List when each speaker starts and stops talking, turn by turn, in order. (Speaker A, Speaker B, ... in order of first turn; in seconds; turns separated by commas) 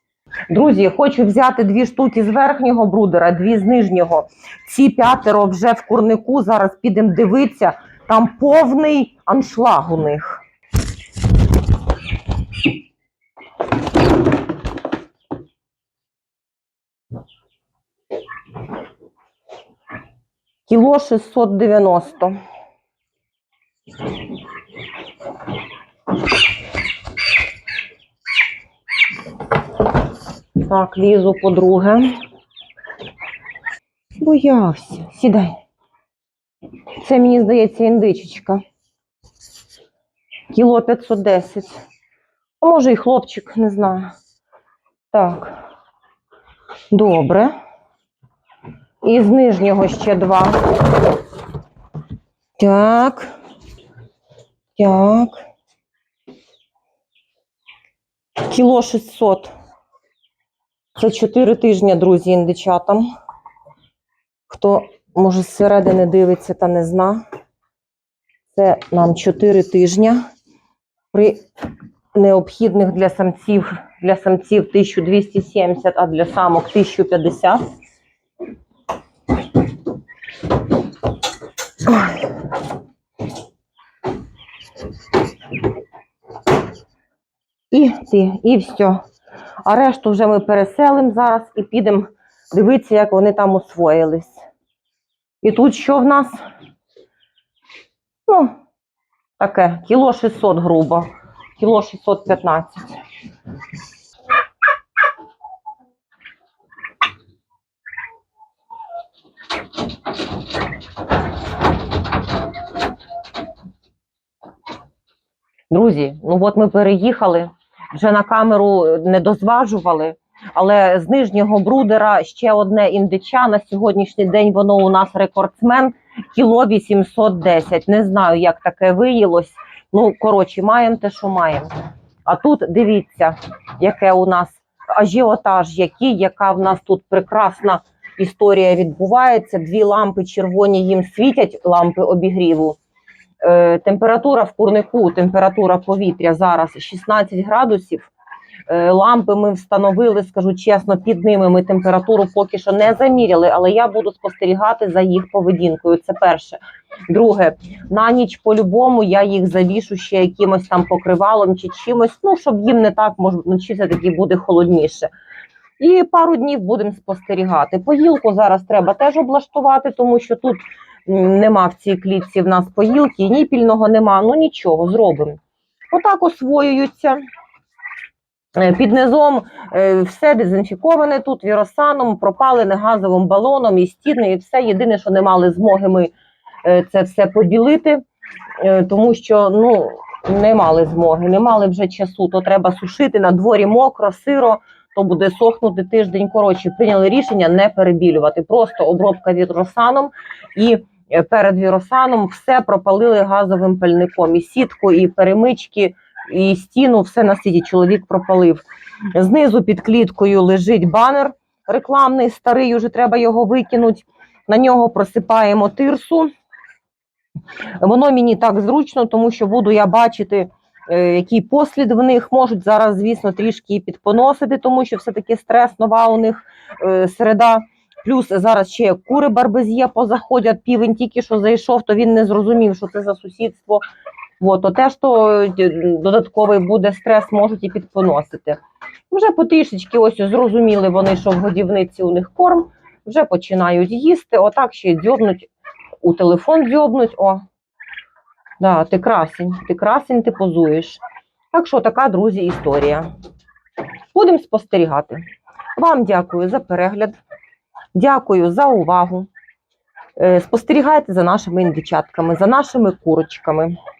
Speaker A: 0.5-10.4, Speaker A: 20.7-22.4, Speaker A: 30.6-32.1, Speaker A: 34.2-35.6, Speaker A: 37.0-38.6, Speaker A: 40.5-41.8, Speaker A: 42.6-44.1, Speaker A: 45.1-45.6, Speaker A: 46.9-47.5, Speaker A: 49.0-50.6, Speaker A: 52.6-53.3, Speaker A: 54.8-55.4, Speaker A: 58.4-59.5, Speaker A: 61.0-63.1, Speaker A: 64.5-67.2, Speaker A: 68.5-70.2, Speaker A: 71.1-71.4, Speaker A: 72.1-77.6, Speaker A: 81.9-82.1, Speaker A: 87.7-89.0, Speaker A: 89.6-94.4, Speaker A: 95.4-96.4, Speaker A: 98.3-98.5, Speaker A: 99.4-103.0, Speaker A: 115.7-131.7, Speaker A: 132.2-142.8, Speaker A: 143.4-148.1, Speaker A: 148.7-165.1, Speaker A: 165.8-175.4, Speaker A: 175.9-177.2, Speaker A: 178.5-186.1, Speaker A: 186.6-188.0, Speaker A: 188.6-208.6, Speaker A: 209.1-216.3, Speaker A: 217.8-233.8, Speaker A: 234.4-238.6, Speaker A: 239.1-245.5, Speaker A: 246.0-247.4, Speaker A: 248.6-251.0, Speaker A: 251.5-253.1, Speaker A: 254.1-255.2, Speaker A: 255.8-257.2, Speaker A: 257.9-259.3, Speaker A: 260.2-263.7